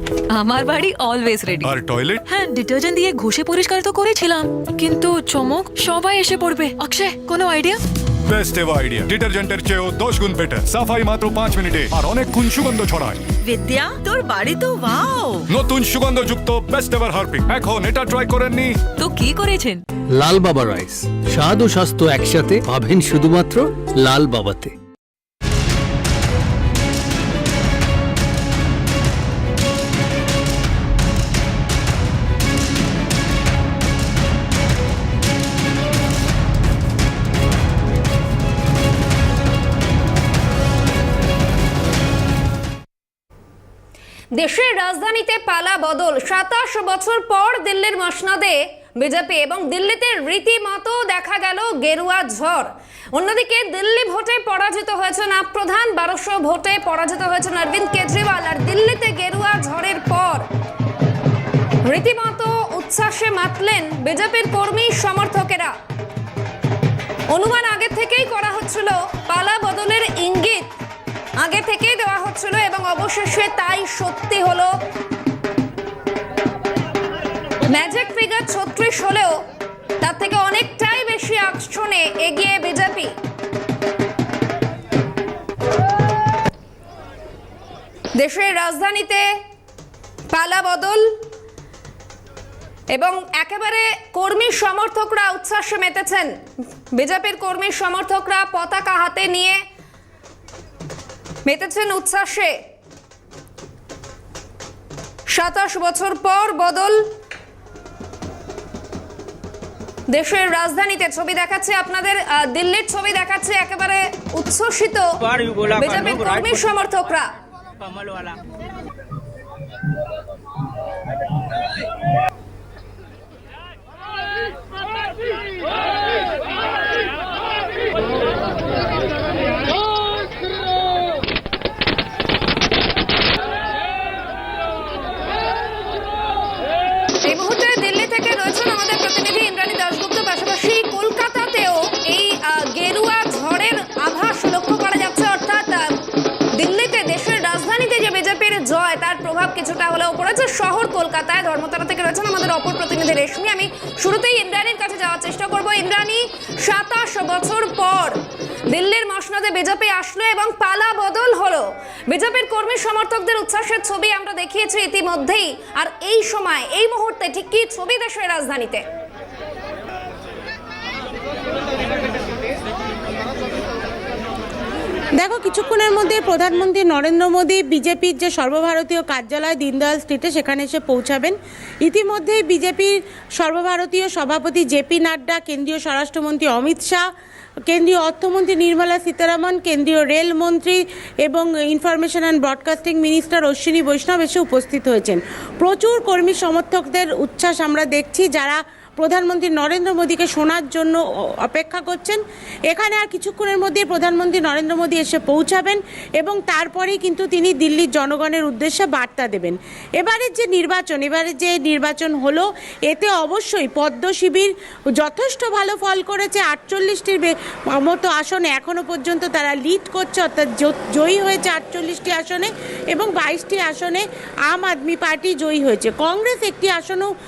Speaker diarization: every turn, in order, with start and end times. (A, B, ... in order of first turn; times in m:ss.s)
0:00.3-0:01.7 A
0:01.6-0:02.2 B
0:02.3-0:07.8 A
0:08.3-0:13.2 B
0:13.5-0:15.3 A
0:15.5-0:18.8 B
0:19.0-0:19.8 A
0:20.1-0:24.7 C
0:44.3-1:00.4 D
1:01.8-1:05.7 D
1:07.3-1:10.7 D
1:11.4-1:14.7 D
1:17.7-1:19.4 D
1:20.0-1:23.1 D
1:28.2-1:29.2 D
1:30.3-1:31.1 D
1:32.9-1:36.3 D
1:36.9-1:39.6 D
1:41.4-1:42.5 D
1:45.3-1:47.0 D
1:50.1-1:55.1 D
1:55.7-1:57.3 D
2:17.2-2:25.9 D
2:26.5-2:38.2 D
2:38.7-2:48.8 D
2:55.2-3:07.0 E
3:07.7-3:47.1 E